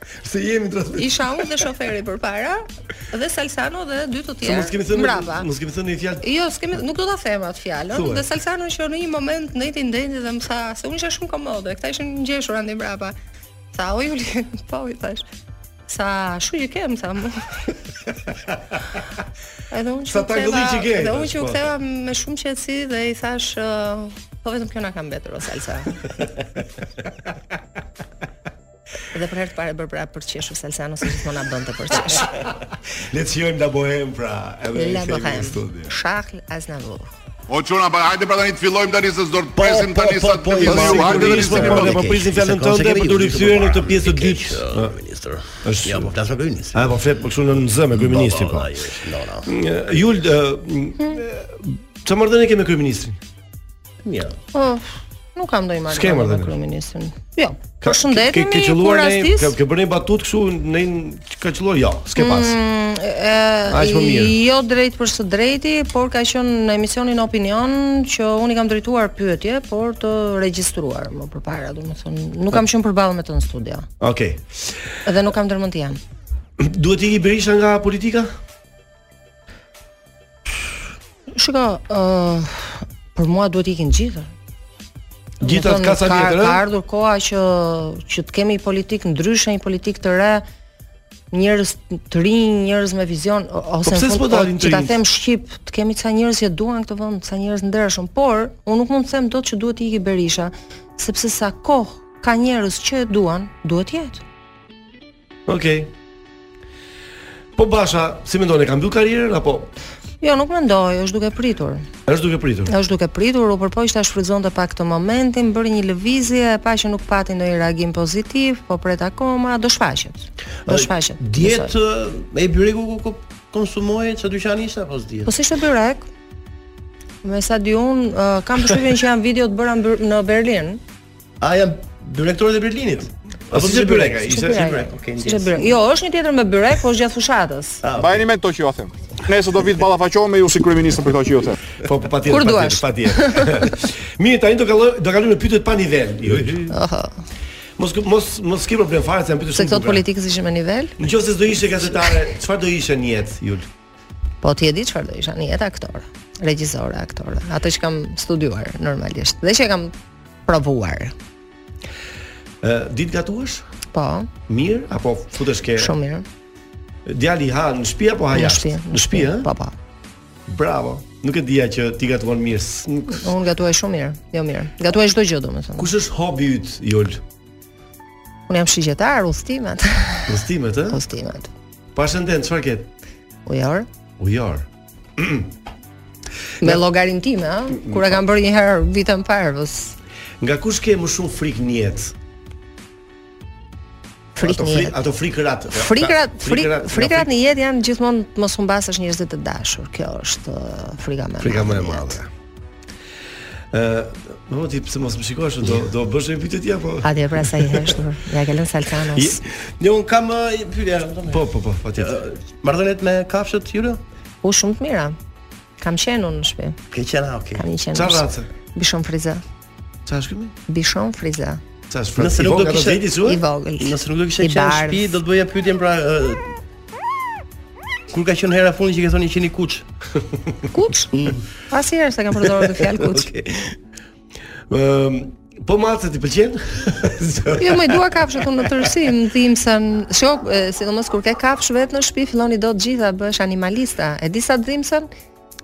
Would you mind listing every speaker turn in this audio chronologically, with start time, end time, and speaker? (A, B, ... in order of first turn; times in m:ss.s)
0:00.2-0:01.5 A
0:01.0-0:05.5 B
0:04.4-0:06.2 A
0:06.2-0:13.1 B
0:07.9-0:08.3 A
0:13.7-0:15.2 B
0:15.9-0:17.7 B
0:19.7-0:26.0 B
0:20.1-0:21.7 A
0:29.1-0:32.3 B
0:33.1-0:35.9 A
0:34.7-0:37.1 B
0:37.5-0:41.8 C
0:39.5-0:47.0 D
0:40.6-0:44.9 A
0:45.6-0:46.1 A
0:46.7-0:48.9 A
0:47.9-0:49.5 D
0:49.4-0:53.2 A
0:54.0-0:54.4 D
0:54.5-0:59.5 B
0:55.9-0:56.6 A
0:57.8-1:02.6 A
1:02.2-1:13.9 B
1:03.7-1:04.4 A
1:14.0-1:14.4 A
1:15.0-1:16.0 B
1:16.6-1:18.3 A
1:21.3-1:24.3 B
1:25.4-1:26.6 A
1:25.4-1:30.4 B
1:31.3-1:44.2 B
1:33.8-1:35.0 A
1:45.5-1:45.9 A
1:47.6-1:49.7 A
1:50.2-1:51.9 B
1:52.1-1:52.7 A
1:52.7-2:01.7 B
2:00.6-2:05.3 D
2:05.2-2:06.1 B
2:07.2-2:10.8 B
2:11.4-2:15.8 D
2:13.5-2:14.9 A
2:14.3-2:17.8 B
2:17.8-2:18.3 D
2:18.0-2:21.6 E
2:21.8-2:26.8 A
2:22.3-2:23.7 B
2:26.7-2:27.1 B
2:27.8-2:30.0 A
2:29.5-2:31.0 B
2:31.0-2:33.7 A
2:34.4-2:39.9 B
2:40.4-2:41.1 B
2:42.6-2:43.6 A
2:43.9-2:44.3 B
2:44.5-2:45.9 A
2:45.8-2:46.2 B
2:47.0-2:49.5 A
2:48.3-2:49.7 B
2:50.5-2:53.3 A
2:53.1-2:55.9 B
2:55.8-2:57.2 A
2:58.5-3:01.5 B
3:00.3-3:01.0 A
3:01.9-3:02.9 A
3:03.4-3:03.9 B
3:04.2-3:04.6 A
3:05.2-3:05.5 A
3:06.6-3:10.0 B
3:07.8-3:08.2 A
3:10.4-3:12.1 A
3:14.4-3:15.0 B
3:14.4-3:17.3 A
3:15.7-3:22.2 B
3:21.4-3:22.3 A
3:23.7-3:27.9 A
3:27.0-3:29.4 B
3:29.1-3:29.4 A
3:29.7-3:31.5 D
3:31.3-3:32.2 A
3:32.0-3:34.0 D
3:34.4-3:35.2 B
3:35.8-3:36.8 B
3:36.9-3:37.7 D
3:37.6-3:39.4 B
3:37.9-3:38.5 A
3:40.0-3:40.5 A
3:40.7-3:41.6 B
3:41.9-3:43.4 A
3:42.2-3:43.1 D
3:43.2-3:45.2 B
3:43.8-3:46.6 D
3:48.1-3:49.8 D
3:50.7-3:51.1 B
3:51.1-3:51.5 D
3:51.7-3:53.3 B
3:52.6-3:53.7 D
3:54.7-3:58.8 A
3:57.6-4:05.1 B